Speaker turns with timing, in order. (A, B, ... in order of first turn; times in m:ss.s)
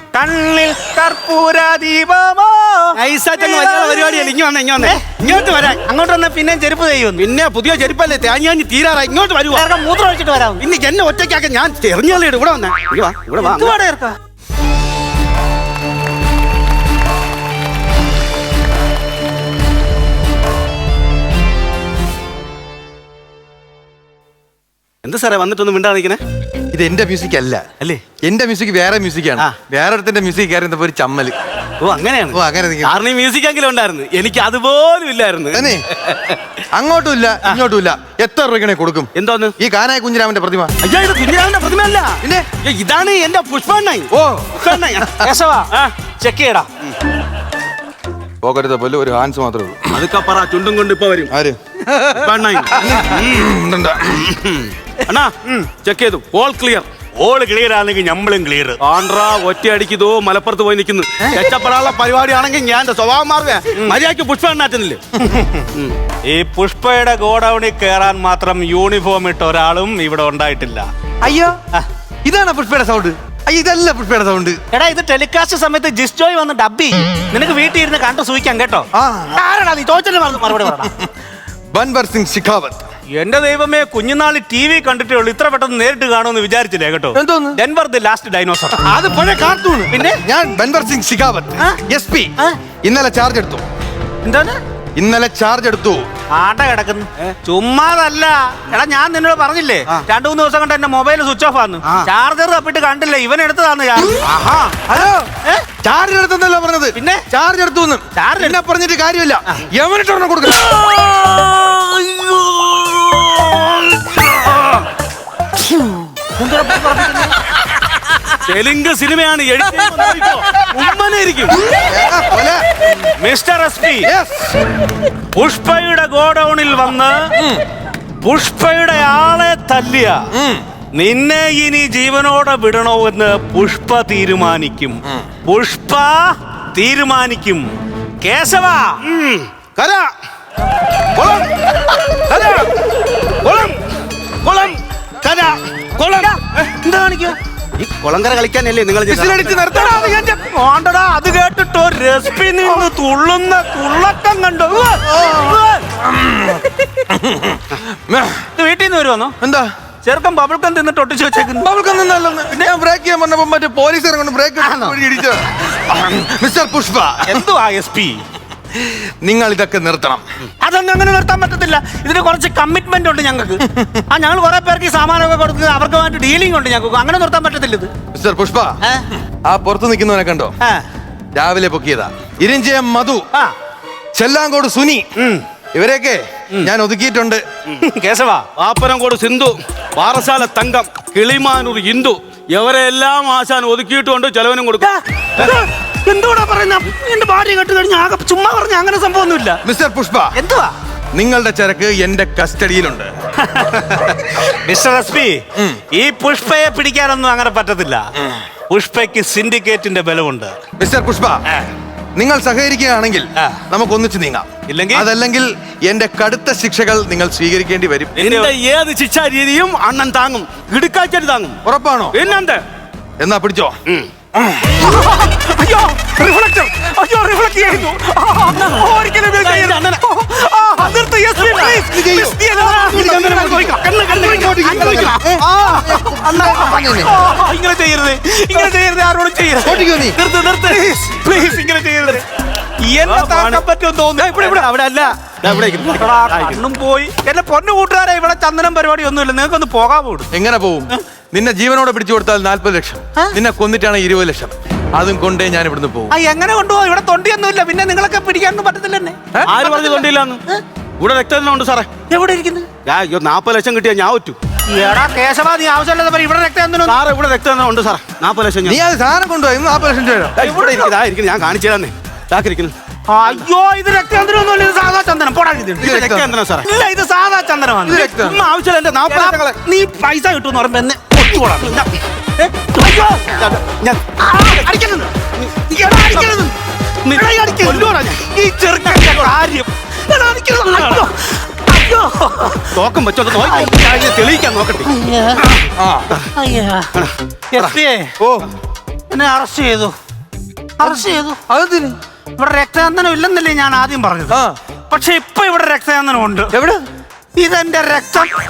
0:00.1-0:05.0 A
0:03.0-0:05.8 B
0:05.8-0:07.2 A
0:07.2-0:09.6 B
0:09.5-0:10.6 A
0:10.6-0:13.8 B
0:13.4-0:14.1 A
0:25.0-0:26.2 B
0:26.7-0:27.6 C
0:28.2-0:31.4 C
0:31.8-0:36.4 B
0:32.3-0:32.9 C
0:35.5-0:35.8 C
0:36.7-0:40.7 C
0:39.2-0:39.5 B
0:40.8-0:45.9 B
0:42.2-0:42.5 C
0:44.1-0:45.1 C
0:45.2-0:46.7 A
0:48.4-0:50.0 C
0:49.9-0:51.3 B
0:51.3-0:54.2 C
0:52.1-0:53.5 B
0:54.2-0:56.9 B
0:57.2-0:58.8 A
0:58.8-1:05.0 B
1:05.2-1:05.7 A
1:06.2-1:10.9 A
1:11.2-1:11.6 C
1:12.2-1:14.6 C
1:14.7-1:20.9 A
1:18.9-1:19.4 C
1:20.7-1:21.1 C
1:21.7-1:22.8 C
1:23.1-1:28.8 A
1:27.1-1:27.6 C
1:28.8-1:32.3 C
1:29.9-1:30.2 A
1:32.8-1:33.6 C
1:34.2-1:34.6 A
1:35.0-1:36.0 C
1:36.3-1:44.2 A
1:44.2-1:44.8 B
1:44.9-1:45.2 C
1:44.9-1:45.6 A
1:45.8-1:50.8 C
1:47.0-1:47.2 A
1:48.1-1:48.6 A
1:50.7-1:54.5 A
1:55.6-1:57.4 A
1:58.0-1:58.2 A
1:58.4-2:01.6 B
2:01.8-2:02.6 C
2:03.1-2:04.1 A
2:04.0-2:04.6 C
2:05.3-2:07.4 A
2:07.4-2:07.6 C
2:08.2-2:10.2 A
2:10.3-2:10.6 C
2:10.9-2:17.7 A
2:18.2-2:19.0 A
2:19.0-2:20.1 B
2:21.1-2:21.5 B
2:22.3-2:22.6 B
2:22.3-2:22.6 A
2:23.4-2:23.8 B
2:24.4-2:26.3 B
2:26.0-2:27.4 A
2:27.8-2:29.6 B
2:29.1-2:30.1 C
2:29.6-2:35.8 A
2:35.1-2:38.4 C
2:38.5-2:39.3 A
2:39.4-2:39.7 C
2:40.0-2:41.7 A
2:41.6-2:47.4 C
2:44.6-2:45.0 A
2:47.2-2:48.2 A
2:48.7-2:50.2 C
2:50.6-2:57.9 A
2:58.1-2:58.8 C
2:58.8-2:59.1 A
2:59.4-3:00.5 C
3:01.4-3:03.2 C
3:04.1-3:05.0 C
3:05.2-3:05.4 A
3:05.7-3:07.4 C
3:07.8-3:08.4 A
3:08.6-3:15.5 B
3:14.8-3:19.6 A
3:19.6-3:20.3 C
3:20.3-3:20.7 A
3:21.1-3:23.1 C
3:23.4-3:28.1 A
3:28.7-3:30.6 A
3:30.8-3:31.4 C
3:32.2-3:38.2 C
3:33.4-3:33.6 A
3:34.7-3:35.1 A
3:38.2-3:41.6 B
3:38.2-3:38.5 A
3:41.6-3:42.2 C
3:42.1-3:42.6 B
3:43.2-3:43.8 C
3:44.3-3:44.8 C
3:44.7-3:59.9 A
3:48.5-3:50.0 B
3:51.3-3:51.8 B
3:51.8-3:53.8 C
3:52.4-3:56.7 B
3:54.4-3:57.2 C
3:59.6-4:00.2 C
4:00.0-4:01.5 B
4:00.7-4:02.2 A
4:02.8-4:04.7 A
4:03.0-4:03.6 B
4:04.2-4:06.6 B
4:05.9-4:10.3 A
4:10.3-4:16.1 C
4:16.1-4:20.6 A
4:19.5-4:20.4 B
4:21.0-4:21.9 B
4:22.1-4:22.7 A
4:22.8-4:24.4 B
4:24.7-4:27.0 A
4:26.8-4:28.8 B
4:28.6-4:30.4 C
4:30.4-4:32.7 B
4:30.4-4:30.9 A
4:33.1-4:36.0 A
4:35.8-4:36.3 C
4:35.8-4:36.7 B
4:36.6-4:38.2 A
4:37.9-4:38.4 C
4:37.9-4:39.6 B
4:39.1-4:41.9 A
4:41.6-4:41.9 B
4:42.4-4:43.2 A
4:42.8-4:44.6 B
4:44.2-4:45.1 A
4:45.4-4:46.4 B
4:45.7-4:46.5 A
4:47.0-4:48.2 B
4:47.1-4:52.7 A
4:48.8-4:49.3 B
4:50.7-4:51.1 B
4:52.7-4:54.9 B
4:53.4-4:53.8 A
4:54.8-4:55.6 A
4:55.8-4:56.1 C
4:56.3-4:56.9 A
4:56.9-4:57.8 B
4:57.5-4:58.1 A
4:58.2-4:58.5 C
4:59.1-4:59.9 A
5:00.8-5:01.4 A
5:00.8-5:02.0 C
5:02.4-5:06.6 A
5:04.3-5:04.6 C
5:06.5-5:06.8 C
5:07.4-5:08.3 A